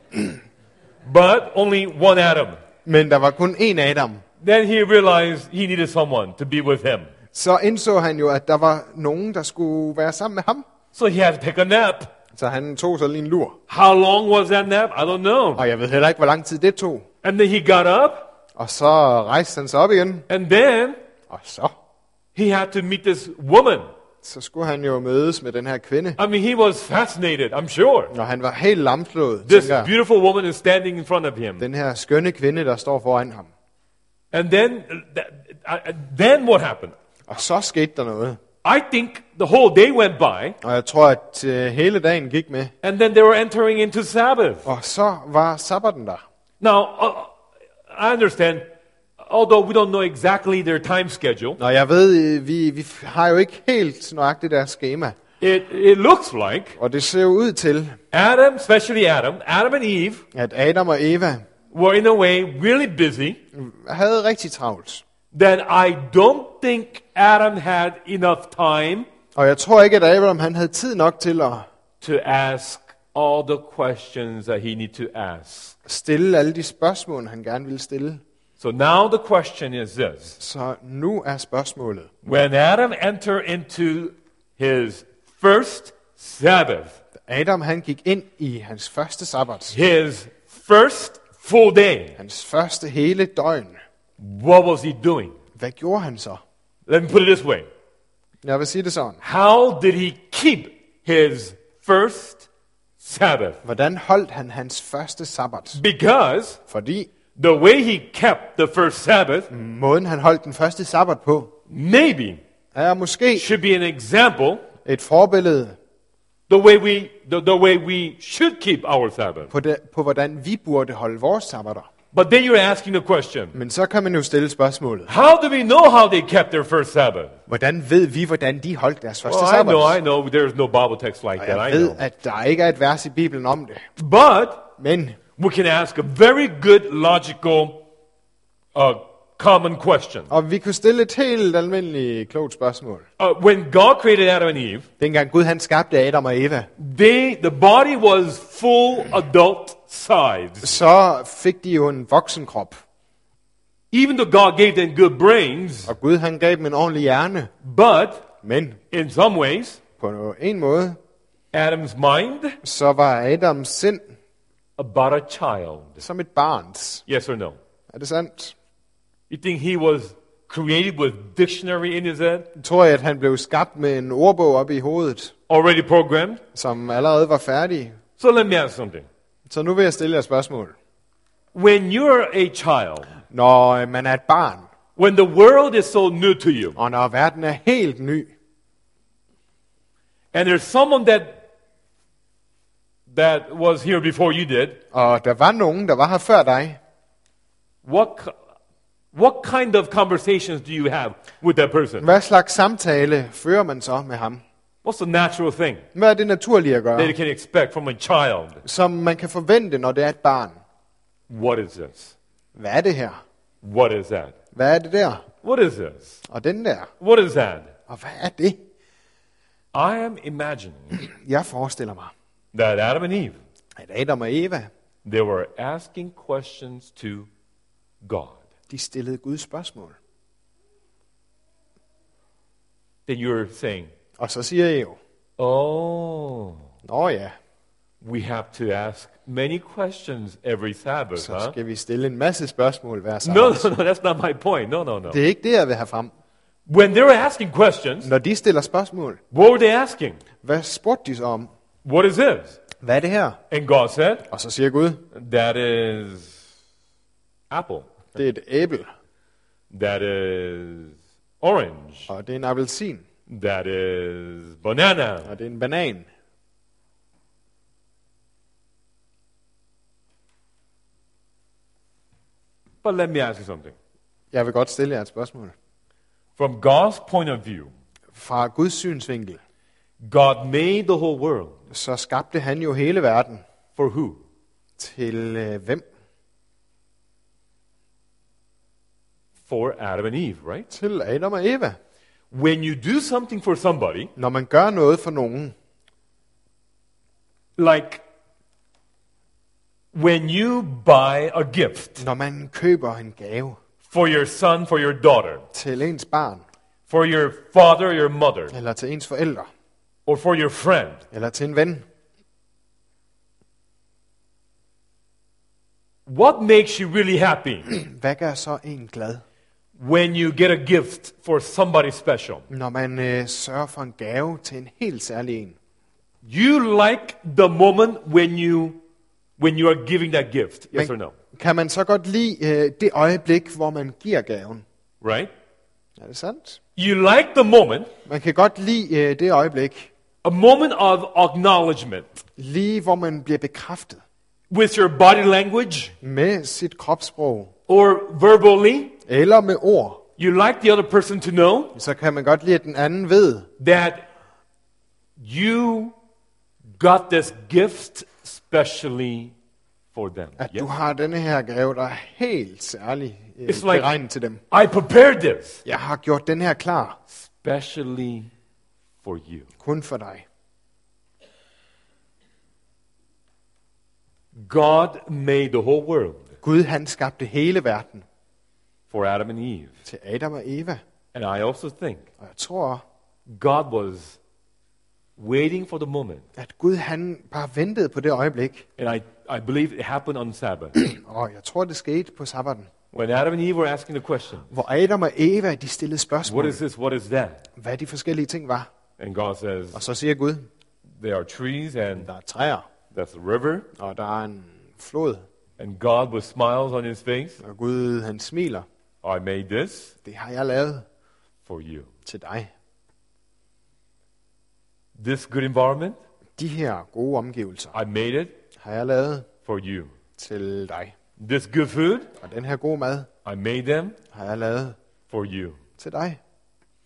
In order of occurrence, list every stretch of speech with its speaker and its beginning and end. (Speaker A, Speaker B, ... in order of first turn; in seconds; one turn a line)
Speaker A: 1.0-2.6
Speaker B: 2.9-4.2
Speaker A: 4.4-7.1
Speaker B: 7.3-10.7
Speaker A: 10.9-12.1
Speaker B: 12.3-13.6
Speaker A: 13.7-15.7
Speaker B: 15.6-17.1
Speaker A: 17.2-18.3
Speaker B: 18.6-20.3
Speaker A: 20.3-21.0
Speaker B: 21.3-21.8
Speaker A: 22.4-23.9
Speaker B: 24.2-26.2
Speaker A: 26.2-28.1
Speaker B: 28.1-29.9
Speaker A: 29.5-31.6
Speaker B: 31.6-33.5
Speaker A: 34.3-37.0
Speaker B: 37.3-38.4
Speaker A: 38.6-40.6
Speaker B: 40.6-42.7
Speaker A: 42.8-44.7
Speaker B: 44.6-46.2
Speaker A: 46.6-47.3
Speaker A: 47.9-48.7
Speaker A: 49.2-51.6
Speaker B: 51.6-55.2
Speaker A: 55.4-56.8
Speaker B: 56.8-58.0
Speaker A: 58.1-60.2
Speaker B: 60.3-61.5
Speaker A: 61.7-63.4
Speaker B: 63.5-65.0
Speaker A: 65.3-69.1
Speaker B: 69.3-71.7
Speaker A: 72.0-75.8
Speaker B: 75.9-78.2
Speaker A: 78.6-80.4
Speaker B: 80.4-82.1
Speaker A: 82.2-87.0
Speaker B: 87.2-89.8
Speaker A: 89.7-92.2
Speaker B: 92.2-93.8
Speaker A: 94.2-95.3
Speaker B: 95.6-96.4
Speaker A: 96.9-97.7
Speaker B: 98.4-99.2
Speaker A: 99.2-102.5
Speaker A: 103.0-103.6
Speaker B: 103.6-105.8
Speaker A: 105.8-106.6
Speaker B: 106.7-107.1
Speaker A: 107.4-109.5
Speaker B: 109.5-111.5
Speaker A: 111.7-112.4
Speaker B: 112.7-113.5
Speaker A: 113.3-114.7
Speaker B: 114.8-115.8
Speaker A: 116.5-119.5
Speaker B: 119.5-121.9
Speaker A: 122.1-123.6
Speaker B: 123.5-125.1
Speaker A: 125.1-127.4
Speaker B: 127.5-130.0
Speaker A: 129.2-132.0
Speaker B: 131.4-133.8
Speaker A: 134.0-134.7
Speaker B: 134.8-135.2
Speaker A: 135.4-137.8
Speaker A: 138.8-140.3
Speaker B: 140.3-143.1
Speaker A: 143.2-144.9
Speaker B: 145.0-146.7
Speaker A: 146.8-150.8
Speaker B: 150.6-152.8
Speaker A: 153.9-155.9
Speaker B: 155.9-157.5
Speaker A: 157.6-158.3
Speaker B: 158.4-158.8
Speaker A: 158.9-159.8
Speaker B: 160.0-161.0
Speaker A: 161.5-162.6
Speaker B: 162.6-164.2
Speaker A: 164.8-166.0
Speaker B: 166.0-167.0
Speaker A: 167.1-167.6
Speaker B: 167.9-168.6
Speaker A: 169.3-172.5
Speaker B: 172.6-175.3
Speaker A: 175.5-176.4
Speaker B: 176.5-178.0
Speaker A: 178.2-179.1
Speaker B: 179.5-180.8
Speaker A: 181.5-183.2
Speaker B: 183.3-184.7
Speaker A: 185.0-186.8
Speaker B: 186.8-188.3
Speaker A: 190.3-191.4
Speaker A: 193.1-194.8
Speaker B: 194.9-196.8
Speaker A: 197.8-198.4
Speaker A: 199.1-202.1
Speaker B: 202.0-204.4
Speaker A: 204.8-205.8
Speaker B: 205.9-207.2
Speaker A: 207.0-208.6
Speaker B: 208.6-210.6
Speaker A: 211.3-212.2
Speaker B: 212.6-213.2
Speaker A: 213.6-214.4
Speaker B: 214.5-215.2
Speaker A: 215.4-216.2
Speaker B: 216.3-216.9
Speaker A: 217.0-217.7
Speaker B: 217.9-218.6
Speaker A: 219.7-221.0
Speaker B: 220.9-222.1
Speaker A: 222.5-223.4
Speaker B: 223.8-224.7
Speaker A: 225.0-227.3
Speaker A: 228.0-228.4
Speaker B: 228.7-230.0
Speaker A: 233.1-233.9
Speaker B: 234.2-235.0
Speaker A: 235.4-236.7
Speaker B: 236.8-237.3
Speaker A: 238.0-241.6
Speaker B: 241.2-243.7
Speaker A: 243.2-245.2
Speaker B: 245.1-246.1
Speaker A: 246.7-248.1
Speaker B: 248.0-249.2
Speaker A: 249.3-250.2
Speaker B: 250.4-251.5
Speaker A: 251.8-252.6
Speaker B: 252.8-253.4
Speaker A: 253.5-254.3
Speaker B: 254.3-255.1
Speaker A: 255.1-256.4
Speaker A: 257.5-258.1
Speaker B: 258.1-258.9
Speaker A: 259.7-262.1
Speaker B: 262.1-263.0
Speaker A: 263.3-265.4
Speaker B: 265.3-266.1
Speaker A: 272.8-273.8
Speaker B: 274.3-275.6
Speaker A: 276.4-277.7
Speaker B: 278.1-279.4
Speaker A: 280.0-281.6
Speaker B: 281.7-283.4
Speaker A: 283.8-284.2
Speaker B: 284.8-285.9
Speaker A: 289.5-290.7
Speaker B: 290.7-291.8
Speaker A: 292.3-294.1
Speaker B: 294.2-295.6
Speaker A: 297.6-298.0
Speaker A: 299.9-302.1
Speaker B: 302.0-303.6
Speaker A: 303.9-305.4
Speaker B: 305.5-306.4
Speaker A: 306.9-308.6
Speaker B: 308.5-309.5
Speaker A: 310.1-311.0
Speaker B: 311.1-311.9
Speaker A: 316.1-317.7
Speaker B: 317.7-319.2
Speaker A: 319.8-322.4
Speaker B: 322.5-325.6
Speaker A: 326.2-328.8
Speaker A: 329.4-331.2
Speaker B: 330.7-334.6
Speaker A: 335.0-335.3
Speaker B: 336.0-336.6
Speaker A: 336.8-337.9
Speaker B: 338.1-339.9
Speaker A: 340.2-342.1
Speaker B: 342.4-344.0
Speaker A: 344.5-345.9
Speaker B: 346.0-347.5
Speaker A: 347.7-348.9
Speaker B: 349.1-350.0
Speaker A: 350.2-351.8
Speaker B: 351.8-353.5
Speaker A: 353.6-354.1
Speaker A: 355.2-356.0
Speaker A: 356.8-359.3
Speaker A: 359.9-360.7
Speaker B: 360.4-364.4
Speaker A: 363.5-363.9
Speaker A: 364.5-365.6
Speaker B: 365.6-367.0
Speaker A: 367.1-368.3
Speaker A: 369.0-369.5
Speaker B: 369.6-370.3
Speaker A: 374.4-376.4
Speaker B: 376.4-378.1
Speaker A: 378.9-379.8
Speaker B: 379.9-380.8
Speaker A: 381.1-382.1
Speaker B: 382.2-382.8
Speaker A: 383.3-384.2
Speaker A: 385.2-386.2
Speaker B: 386.4-388.7
Speaker A: 388.8-390.9
Speaker B: 390.8-392.7
Speaker A: 392.9-394.6
Speaker B: 394.5-396.6
Speaker A: 396.2-397.4
Speaker B: 397.6-398.7
Speaker A: 399.0-399.8
Speaker B: 399.7-400.5
Speaker A: 401.0-402.1
Speaker B: 402.0-402.7
Speaker A: 402.9-403.7
Speaker B: 403.8-405.2
Speaker A: 405.6-407.4
Speaker B: 407.4-408.7
Speaker A: 409.0-409.9
Speaker B: 410.1-410.9
Speaker A: 411.4-411.9
Speaker B: 412.1-412.5
Speaker A: 415.0-416.0
Speaker B: 416.4-417.7
Speaker A: 417.7-418.4
Speaker B: 418.6-419.3
Speaker A: 419.4-419.9
Speaker B: 420.2-420.9
Speaker A: 421.2-422.1
Speaker B: 422.2-423.1
Speaker A: 423.2-424.0
Speaker B: 424.1-424.8
Speaker A: 425.1-425.6
Speaker B: 425.8-426.2